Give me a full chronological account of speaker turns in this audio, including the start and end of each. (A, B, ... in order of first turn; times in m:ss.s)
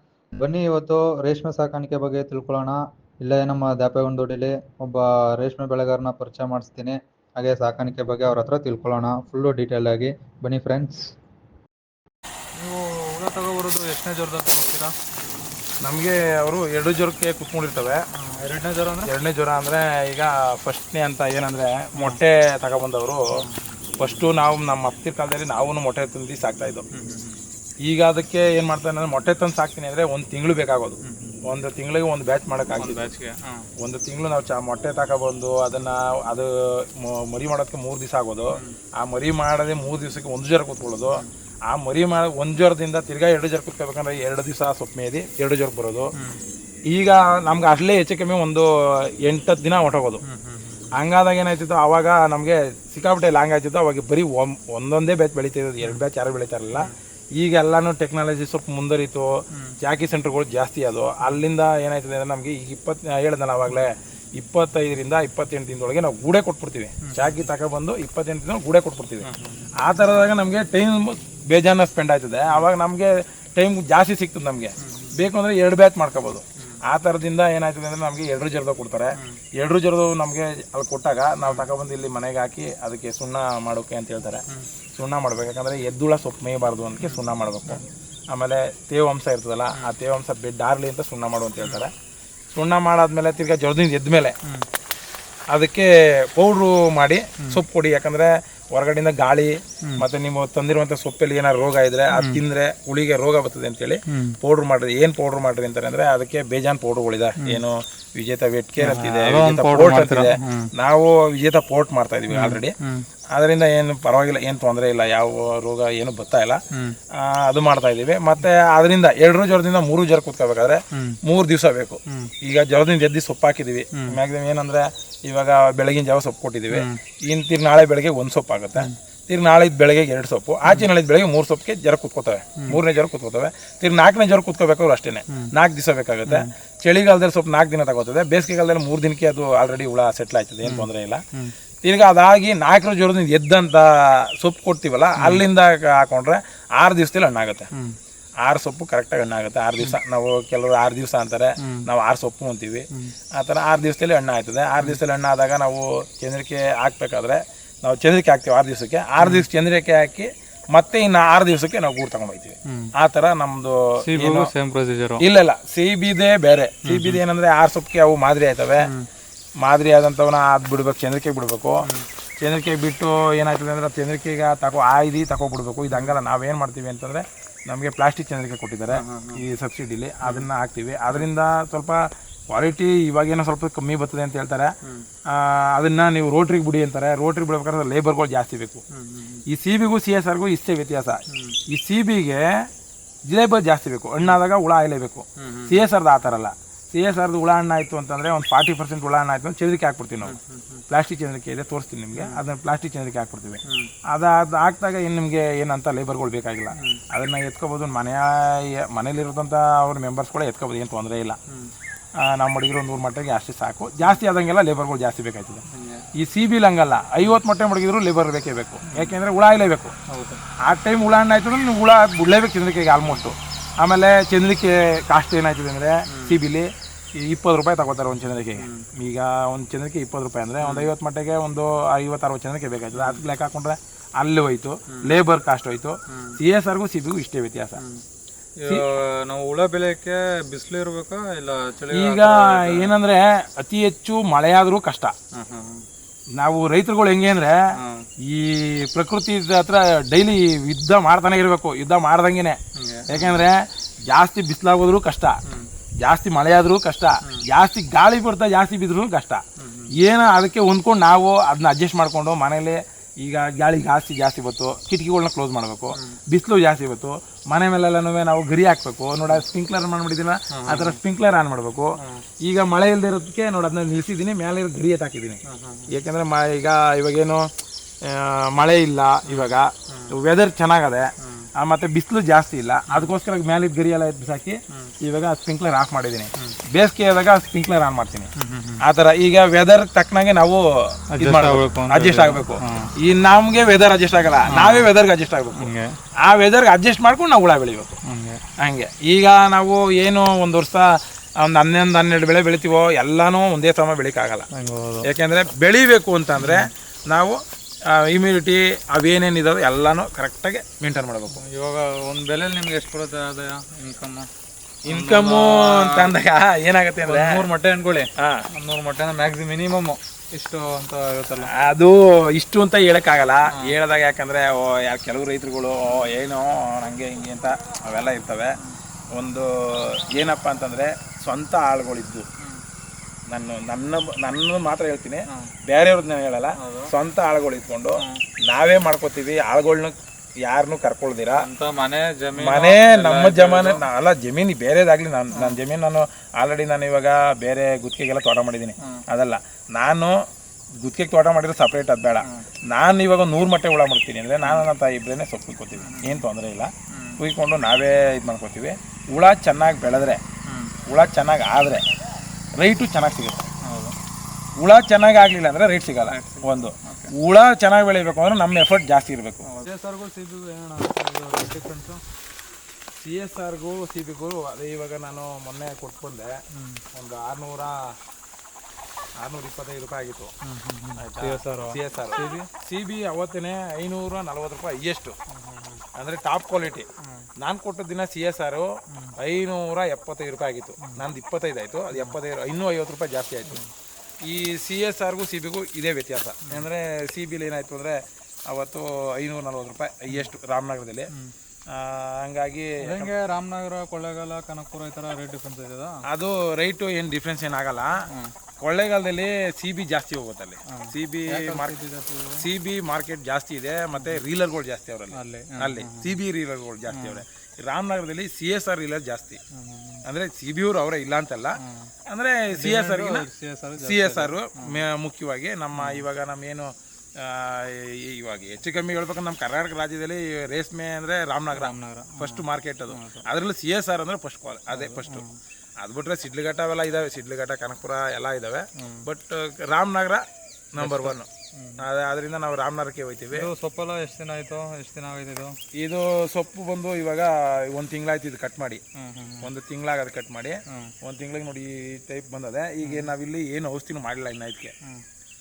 0:00.4-0:11.0 A
0:12.6-0:14.9 B
0:15.8-0:18.0 C
0:18.1-0:19.1 B
0:19.0-0:23.2 C
0:24.0-0:26.9 C
0:26.9-0:27.4 B
0:27.8-0:33.1 C
0:31.0-0:31.4 B
0:32.7-0:33.7 B
0:33.8-0:46.1 C
0:46.9-0:50.2 C
0:50.2-0:50.8 B
0:50.9-1:24.4 C
1:07.0-1:07.5 B
1:09.2-1:09.6 B
1:14.8-1:15.2 B
1:25.0-1:31.9 C
1:27.0-1:27.8 B
1:32.5-1:34.4 C
1:35.5-1:52.7 C
1:42.1-1:42.4 B
1:44.1-1:44.4 B
1:48.8-1:50.7 B
1:52.3-1:53.0 B
1:53.3-1:56.6 C
1:57.1-2:21.2 C
2:00.9-2:01.2 B
2:06.7-2:07.0 B
2:20.6-2:21.5 B
2:21.8-2:27.7 C
2:25.2-2:25.4 B
2:28.4-2:44.5 C
2:31.6-2:31.9 B
2:39.2-2:39.4 B
2:42.6-2:42.9 B
2:44.0-2:45.2 B
2:45.2-2:48.9 C
2:46.8-2:47.2 B
2:48.8-2:49.1 B
2:49.6-2:51.8 C
2:52.4-3:04.7 C
2:58.9-2:59.4 B
3:00.2-3:00.5 B
3:05.3-3:08.8 C
3:08.9-3:09.4 B
3:09.5-3:12.6 C
3:11.3-3:11.6 B
3:13.3-3:20.4 C
3:15.4-3:15.8 B
3:20.2-3:20.8 B
3:20.9-3:31.4 C
3:23.6-3:23.9 B
3:26.7-3:27.0 B
3:32.2-3:35.6 C
3:35.7-3:36.0 B
3:36.2-3:39.9 C
3:38.9-3:39.2 B
3:40.1-3:40.4 B
3:40.6-3:57.8 C
3:43.0-3:43.3 B
3:46.1-3:46.4 B
3:48.6-3:48.8 B
3:50.6-3:50.9 B
3:52.9-3:53.2 B
3:56.1-3:56.4 B
3:57.8-3:58.0 B
3:58.6-4:02.9 B
4:01.9-4:05.1 C
4:05.3-4:05.8 B
4:06.4-4:07.6 C
4:07.8-4:08.0 B
4:08.2-4:15.4 C
4:12.8-4:13.4 B
4:16.0-4:37.5 C
4:19.6-4:19.9 B
4:25.9-4:26.2 B
4:30.5-4:31.0 B
4:32.0-4:32.2 B
4:35.4-4:35.9 B
4:38.0-4:48.3 C
4:39.3-4:40.1 B
4:41.2-4:41.5 B
4:48.4-4:48.8 B
4:48.8-4:55.7 C
4:51.1-4:52.9 B
4:54.5-4:54.9 B
4:55.6-4:55.9 B
4:56.2-4:57.9 C
4:58.0-4:58.4 B
4:58.6-5:04.5 C
5:04.5-5:05.1 B
5:05.0-5:11.4 C
5:06.4-5:06.7 B
5:11.3-5:14.3 B
5:14.8-5:17.4 C
5:14.9-5:16.1 B
5:17.0-5:21.5 B
5:18.2-5:18.4 C
5:21.5-5:28.6 C
5:29.1-5:32.3 C
5:33.3-5:41.4 C
5:36.6-5:36.9 B
5:41.4-5:43.8 B
5:42.4-5:50.2 C
5:50.8-6:00.2 C
5:54.4-5:54.7 B
5:55.8-5:56.2 B
5:56.9-5:57.2 B
6:00.5-6:00.8 B
6:00.9-6:01.8 C
6:02.6-6:03.5 C
6:03.6-6:04.0 B
6:04.6-6:09.4 C
6:06.0-6:07.1 B
6:09.4-6:12.0 B
6:13.0-6:16.3 C
6:16.5-6:16.8 B
6:16.9-6:17.9 C
6:19.2-6:20.3 C
6:20.4-6:22.5 B
6:21.0-6:25.2 C
6:25.3-6:25.8 B
6:25.9-6:26.9 C
6:27.4-6:33.6 C
6:34.2-6:41.1 C
6:41.7-6:43.1 C
6:42.8-6:46.0 B
6:46.0-6:48.0 C
6:48.0-6:48.3 B
6:48.6-6:51.8 C
6:50.7-6:52.4 B
6:52.4-6:59.4 C
6:54.0-6:54.2 B
6:55.1-6:56.2 B
6:56.9-6:57.2 B
6:59.5-7:00.0 B
7:00.0-7:03.2 C
7:01.6-7:01.9 B
7:02.5-7:04.8 B
7:03.8-7:15.2 C
7:05.8-7:06.0 B
7:11.5-7:13.2 B
7:14.7-7:15.3 B
7:15.8-7:23.5 C
7:18.8-7:19.0 B
7:20.8-7:21.8 B
7:23.3-7:25.6 B
7:25.7-7:28.8 C
7:29.0-7:29.5 B
7:29.4-7:34.7 C
7:32.8-7:33.1 B